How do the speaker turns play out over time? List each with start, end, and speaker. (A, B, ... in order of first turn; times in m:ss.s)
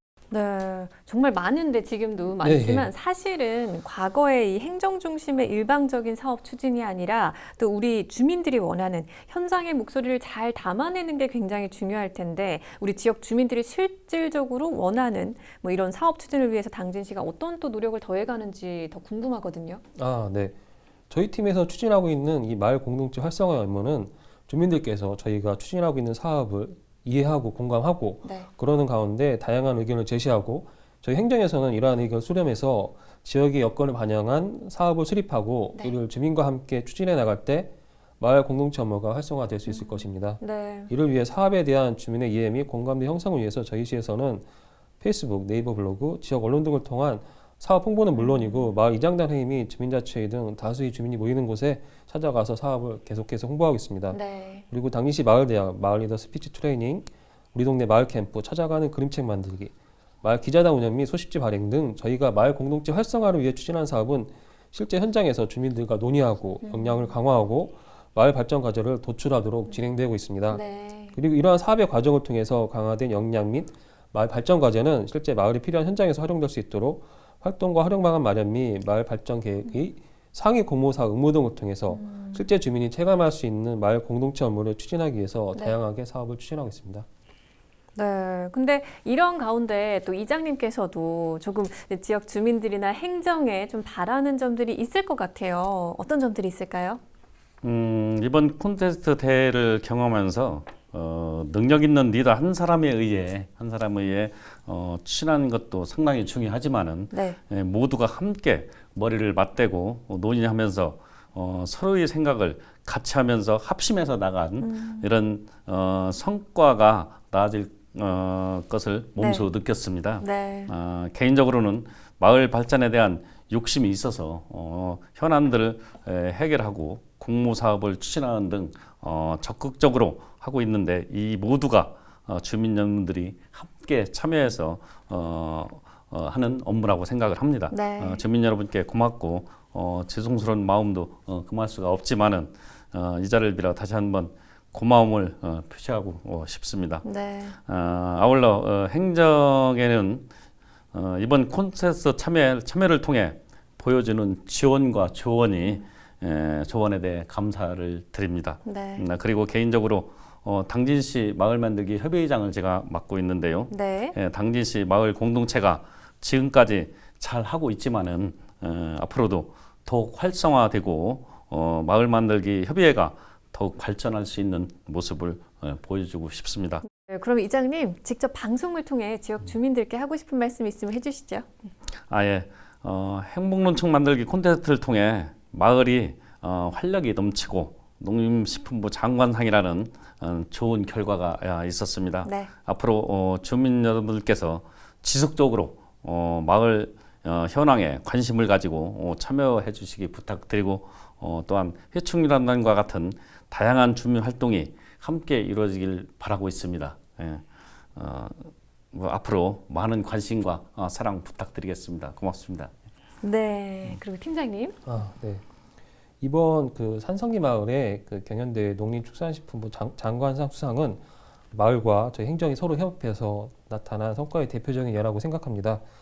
0:00.3-0:19.8 A
0:02.4-0:02.9 B
0:20.0-0:20.5 B
0:21.1-0:44.4 B
0:39.7-0:40.9 A
0:45.0-0:54.2 B
0:48.2-0:48.7 A
0:54.1-0:54.6 A
0:54.7-1:10.6 B
1:06.6-1:07.1 A
1:10.5-1:11.2 A
1:11.1-1:27.0 B
1:21.9-1:22.5 A
1:27.9-1:37.0 A
1:37.6-2:27.0 C
1:47.1-1:47.4 A
1:54.6-1:55.1 A
1:59.2-1:59.5 A
2:00.2-2:00.7 A
2:17.7-2:18.2 A
2:27.0-2:27.6 A
2:27.6-2:30.3 C
2:30.9-2:56.8 C
2:38.6-2:39.0 A
2:43.7-2:44.2 A
2:56.9-3:01.5 A
3:02.1-3:27.4 C
3:12.2-3:12.5 A
3:28.0-3:32.7 C
3:33.2-3:34.8 A
3:34.8-3:35.4 B
3:36.2-3:41.0 B
3:41.5-3:45.8 B